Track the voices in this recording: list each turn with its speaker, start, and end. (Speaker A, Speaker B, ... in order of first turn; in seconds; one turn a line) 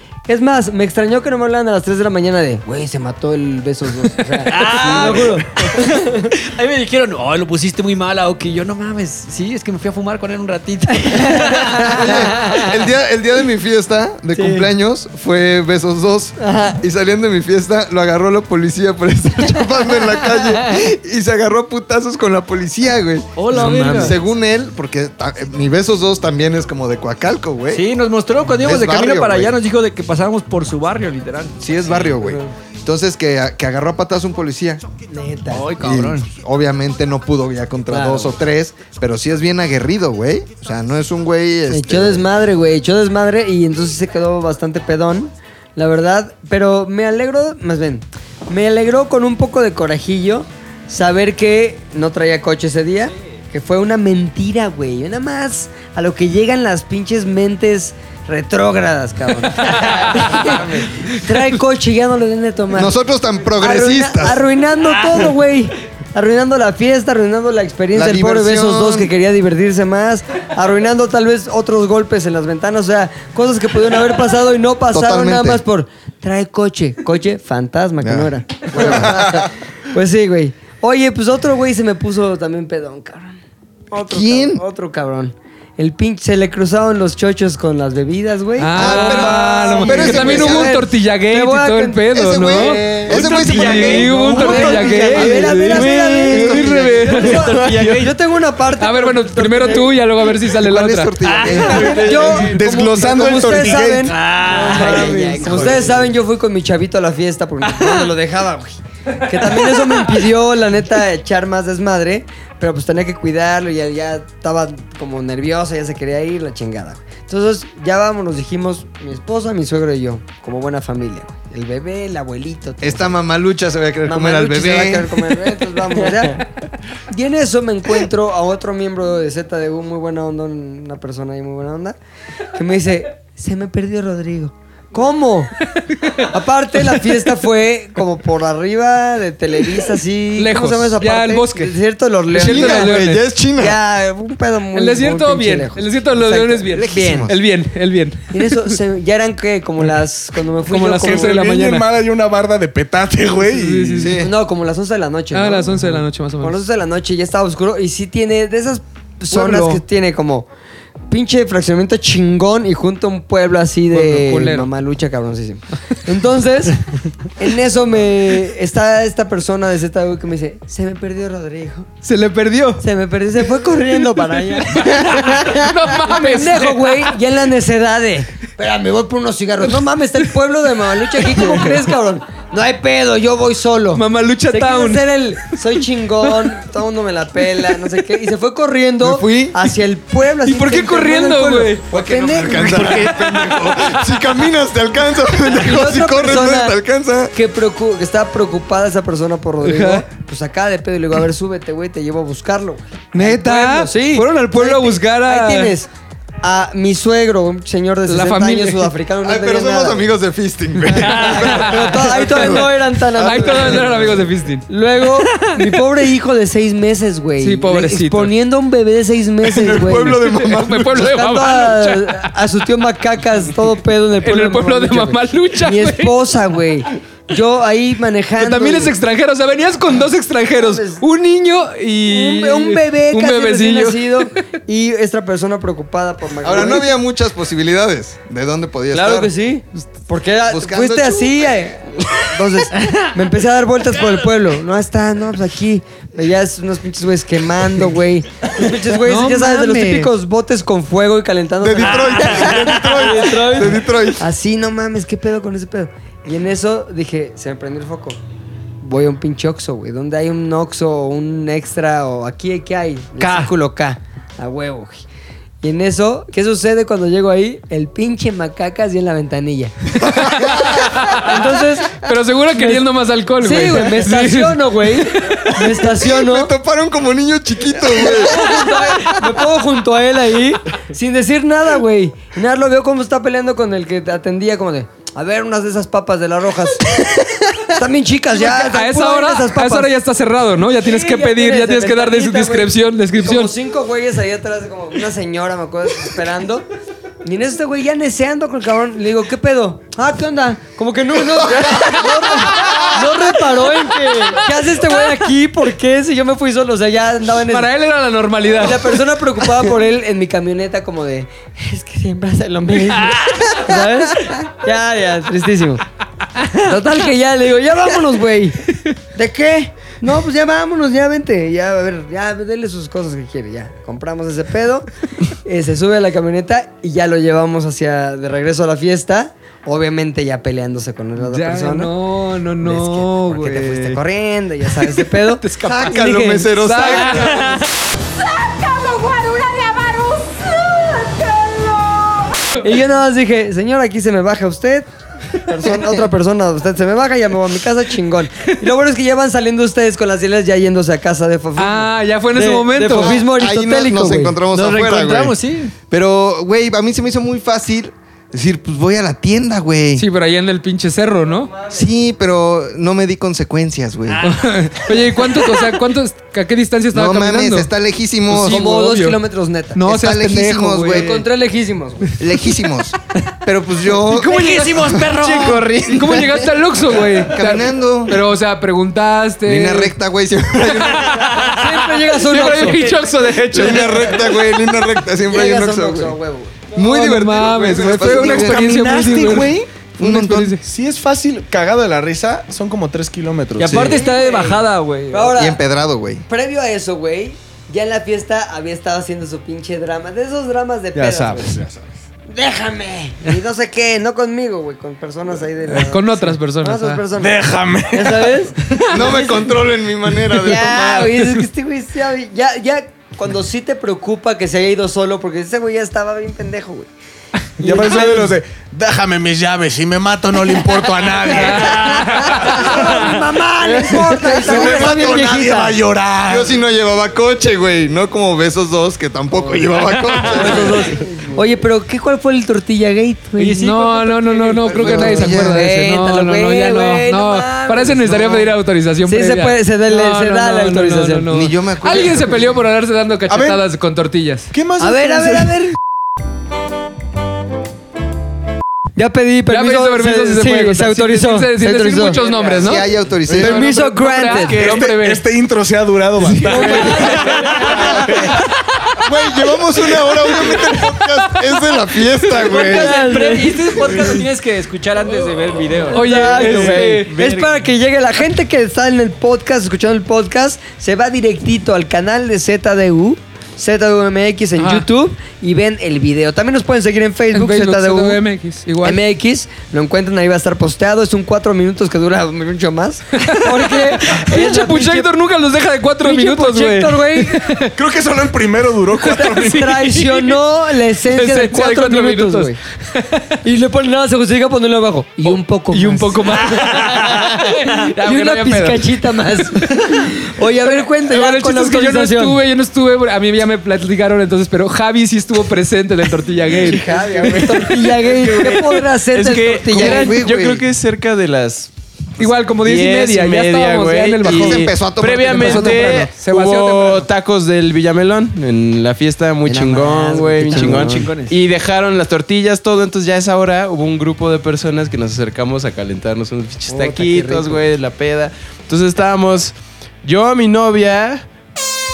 Speaker A: 0.3-6.3
Speaker B: 4.5-12.1
Speaker C: 4.8-5.3
Speaker A: 11.5-12.1
Speaker C: 11.8-27.9
Speaker A: 14.3-14.7
Speaker A: 16.4-16.8
Speaker B: 23.4-24.2
Speaker A: 23.6-24.1
Speaker B: 27.7-31.6
Speaker C: 28.6-29.6
Speaker C: 31.6-34.8
Speaker A: 35.1-35.7
Speaker B: 35.5-36.3
Speaker C: 35.8-42.2
Speaker A: 37.9-38.3
Speaker A: 41.7-63.0
Speaker D: 59.6-61.4
Speaker C: 62.7-64.4
Speaker A: 63.6-83.4
Speaker C: 67.9-69.1
Speaker C: 74.9-75.6
Speaker C: 78.0-79.5
Speaker A: 83.9-92.8
Speaker C: 84.0-84.6
Speaker D: 88.6-97.5
Speaker C: 88.7-90.8
Speaker C: 92.1-95.7
Speaker E: 93.0-98.1
Speaker A: 93.6-100.0
Speaker C: 96.3-96.6
Speaker B: 97.6-98.0
Speaker D: 98.8-101.2
Speaker C: 100.5-102.0
Speaker B: 101.2-102.1
Speaker E: 101.4-102.6
Speaker A: 101.7-123.2
Speaker F: 102.1-104.2
Speaker B: 104.0-105.8
Speaker E: 104.6-105.9
Speaker C: 105.5-105.8
Speaker C: 122.8-125.2
Speaker A: 124.0-126.4
Speaker A: 127.1-132.0
Speaker A: 132.6-135.5
Speaker D: 135.8-136.3
Speaker A: 136.2-143.0
Speaker D: 140.4-141.7
Speaker D: 142.3-143.2
Speaker C: 142.4-143.8
Speaker A: 143.6-147.3
Speaker D: 144.7-148.8
Speaker C: 146.8-147.4
Speaker A: 148.3-151.4
Speaker D: 150.7-151.9
Speaker F: 151.0-154.1
Speaker D: 153.4-154.2
Speaker C: 154.0-154.3
Speaker A: 154.2-160.5
Speaker D: 155.3-156.6
Speaker D: 159.3-159.8
Speaker A: 161.1-166.8
Speaker D: 163.9-164.7
Speaker A: 167.4-171.9
Speaker D: 172.0-172.8
Speaker A: 172.8-193.3
Speaker D: 174.3-177.2
Speaker D: 183.9-185.5
Speaker C: 189.0-189.6
Speaker D: 190.4-191.9
Speaker C: 191.9-197.3
Speaker D: 192.5-193.9
Speaker A: 195.6-196.8
Speaker A: 197.3-205.9
Speaker D: 199.6-200.1
Speaker D: 203.1-205.8
Speaker A: 206.4-210.1
Speaker D: 208.1-208.9
Speaker C: 209.2-214.2
Speaker D: 210.9-214.7
Speaker A: 211.0-214.2
Speaker A: 214.7-228.9
Speaker D: 215.3-215.8
Speaker D: 217.4-218.3
Speaker C: 219.6-221.1
Speaker D: 220.1-222.3
Speaker D: 224.2-226.2
Speaker D: 228.4-234.3
Speaker A: 230.5-231.1
Speaker A: 232.1-236.9
Speaker C: 236.4-239.3
Speaker A: 238.9-258.2
Speaker C: 240.5-241.5
Speaker D: 248.9-250.1
Speaker C: 251.6-254.2
Speaker A: 258.8-265.1
Speaker A: 265.6-272.0
Speaker D: 270.1-275.9
Speaker C: 270.1-270.9
Speaker A: 272.5-272.8
Speaker A: 273.4-276.5
Speaker C: 276.0-279.1
Speaker A: 278.0-289.9
Speaker D: 288.3-293.5
Speaker A: 290.8-296.7
Speaker A: 297.2-307.7
Speaker D: 301.6-303.4
Speaker D: 303.9-304.5
Speaker D: 307.4-309.0
Speaker A: 308.5-315.8
Speaker D: 313.1-313.6
Speaker A: 316.6-331.9
Speaker D: 331.2-334.0
Speaker A: 332.6-336.4
Speaker D: 334.7-337.7
Speaker C: 335.6-337.6
Speaker D: 338.6-340.4
Speaker A: 342.6-354.4
Speaker C: 345.7-346.0
Speaker D: 351.6-353.2
Speaker C: 353.0-355.4
Speaker B: 354.5-355.7
Speaker C: 355.9-360.1
Speaker D: 360.0-361.5
Speaker C: 361.6-364.3
Speaker D: 364.2-367.7
Speaker C: 366.9-368.7
Speaker D: 368.3-369.2
Speaker A: 368.4-369.8
Speaker D: 369.8-371.1
Speaker C: 369.9-371.2
Speaker A: 370.9-372.2
Speaker C: 372.2-375.2
Speaker B: 374.1-375.9
Speaker E: 375.1-376.2
Speaker D: 375.9-379.9
Speaker C: 377.2-378.2
Speaker C: 379.5-381.4
Speaker D: 380.7-384.3
Speaker A: 381.4-383.0
Speaker C: 383.4-386.2
Speaker A: 385.3-386.6
Speaker C: 386.8-388.8
Speaker D: 386.8-390.6
Speaker F: 387.8-394.0
Speaker C: 390.0-390.6
Speaker B: 393.6-395.3
Speaker A: 393.7-395.6
Speaker C: 395.3-396.2
Speaker A: 396.3-401.6
Speaker F: 401.0-401.9
Speaker A: 402.3-407.3
Speaker D: 405.7-407.1
Speaker F: 407.1-408.4
Speaker A: 407.9-409.3
Speaker D: 408.8-409.1
Speaker C: 408.9-411.2
Speaker A: 410.3-416.9
Speaker D: 411.2-411.4
Speaker A: 417.6-418.3
Speaker F: 417.6-422.8
Speaker D: 421.3-423.2
Speaker A: 421.3-425.7
Speaker F: 423.9-426.6
Speaker C: 424.2-425.7
Speaker C: 426.3-431.0
Speaker A: 430.3-433.7
Speaker D: 433.4-444.5
Speaker B: 433.4-434.9
Speaker A: 434.7-438.5
Speaker C: 434.7-435.6
Speaker A: 439.1-441.3
Speaker C: 441.3-442.6
Speaker F: 443.3-443.6
Speaker F: 444.5-445.7
Speaker A: 444.8-445.8
Speaker A: 449.0-452.2
Speaker D: 449.5-455.2
Speaker E: 452.2-452.6
Speaker C: 452.4-453.6
Speaker F: 453.3-453.6
Speaker A: 453.3-454.6
Speaker F: 454.6-457.1
Speaker E: 456.3-458.3
Speaker D: 456.4-457.2
Speaker A: 456.4-458.3
Speaker B: 456.7-457.9
Speaker C: 459.0-462.9
Speaker D: 460.6-461.2
Speaker B: 462.3-467.1
Speaker A: 462.4-464.2
Speaker D: 465.9-467.1
Speaker A: 465.9-478.2
Speaker E: 466.3-467.6
Speaker D: 474.6-474.9
Speaker D: 477.3-479.0
Speaker A: 478.8-485.1
Speaker D: 483.2-487.7
Speaker A: 486.0-487.5
Speaker F: 487.8-489.8
Speaker A: 489.1-492.6
Speaker D: 489.1-490.4
Speaker D: 491.0-493.3
Speaker A: 493.4-502.4
Speaker D: 495.2-507.8
Speaker A: 506.5-510.2
Speaker E: 506.9-531.3
Speaker C: 509.7-510.6
Speaker D: 512.2-514.7
Speaker C: 514.2-516.1
Speaker D: 515.2-517.1
Speaker A: 519.5-521.1
Speaker C: 520.1-520.8
Speaker B: 520.5-521.3
Speaker A: 526.7-527.6